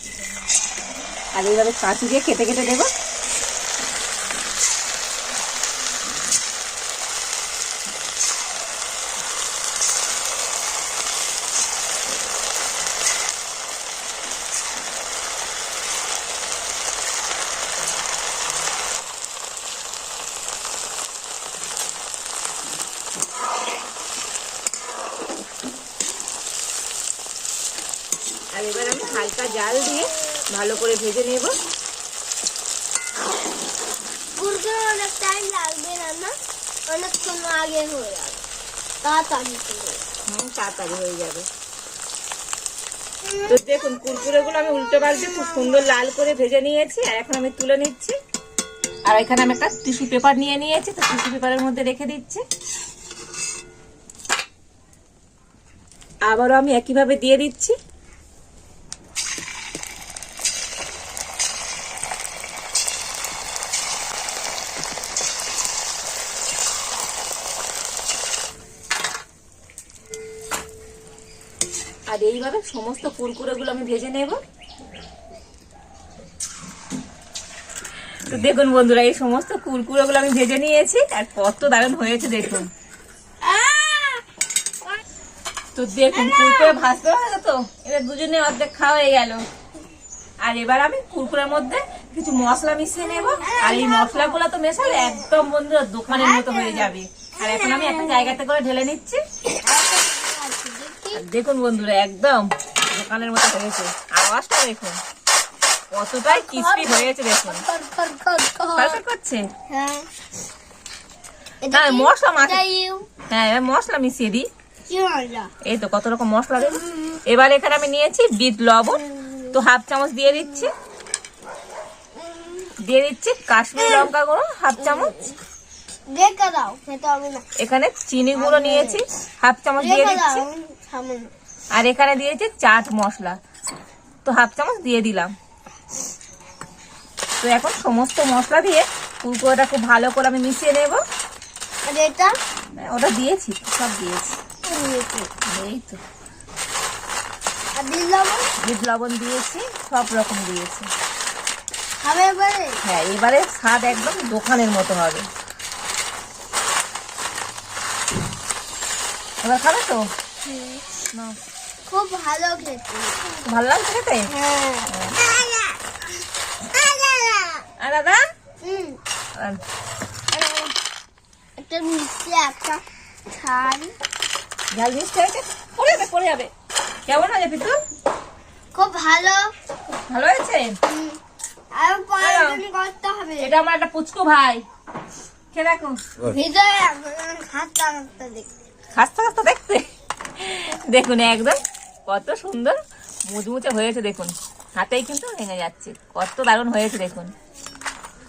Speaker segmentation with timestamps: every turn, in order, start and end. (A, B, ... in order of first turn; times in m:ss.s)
0:01.3-0:02.9 A
0:28.5-0:31.5 A
0:34.4-0:36.3 B
0:36.9-0:38.4 B
0:39.0-0:40.1 B
0:40.3-0:41.5 A
0:43.2-0:43.6 B
0:43.5-0:48.2 A
0:49.0-0:52.4 A
0:56.3-0:57.7 A
1:12.1-1:14.4 A
1:18.2-1:22.7 A
1:23.4-1:24.2 B
1:25.7-1:29.4 A
1:26.1-1:26.8 B
1:30.4-1:39.2 A
1:33.3-1:35.3 B
1:36.1-1:38.4 B
1:39.5-1:41.2 B
1:41.1-1:45.0 A
1:45.9-1:47.6 A
1:46.2-1:49.0 B
1:48.7-1:49.4 A
1:49.7-1:50.1 B
1:51.6-1:53.1 B
1:51.7-1:52.6 A
1:53.3-1:54.5 A
1:54.9-1:55.5 B
1:55.6-2:00.7 A
1:56.6-1:57.2 B
1:58.9-1:59.6 B
2:00.3-2:00.7 B
2:02.2-2:02.7 B
2:02.8-2:05.1 A
2:03.8-2:04.1 B
2:04.8-2:05.4 B
2:06.1-2:07.4 B
2:07.6-2:10.4 A
2:08.3-2:09.0 B
2:09.8-2:11.3 B
2:11.7-2:13.4 A
2:14.2-2:15.3 A
2:17.4-2:21.0 A
2:21.8-2:22.3 B
2:22.8-2:24.4 A
2:24.6-2:25.3 B
2:25.4-2:26.0 A
2:27.7-2:28.5 B
2:28.6-2:30.9 A
2:32.0-2:32.8 B
2:32.8-2:35.2 A
2:39.4-2:40.0 A
2:40.4-2:40.8 B
2:41.1-2:41.4 A
2:41.9-2:43.4 B
2:43.4-2:44.3 A
2:44.3-2:45.8 B
2:44.9-2:45.2 A
2:46.6-2:47.6 B
2:47.8-2:48.2 A
2:48.6-2:49.0 B
2:50.3-2:50.7 A
2:51.6-2:53.9 B
2:54.7-2:56.5 A
2:57.1-2:57.8 A
2:58.7-2:59.5 B
3:00.1-3:00.7 A
3:00.9-3:01.2 B
3:01.7-3:03.5 B
3:02.2-3:02.6 A
3:03.4-3:04.6 A
3:05.5-3:06.0 A
3:06.3-3:08.5 B
3:08.9-3:17.3 A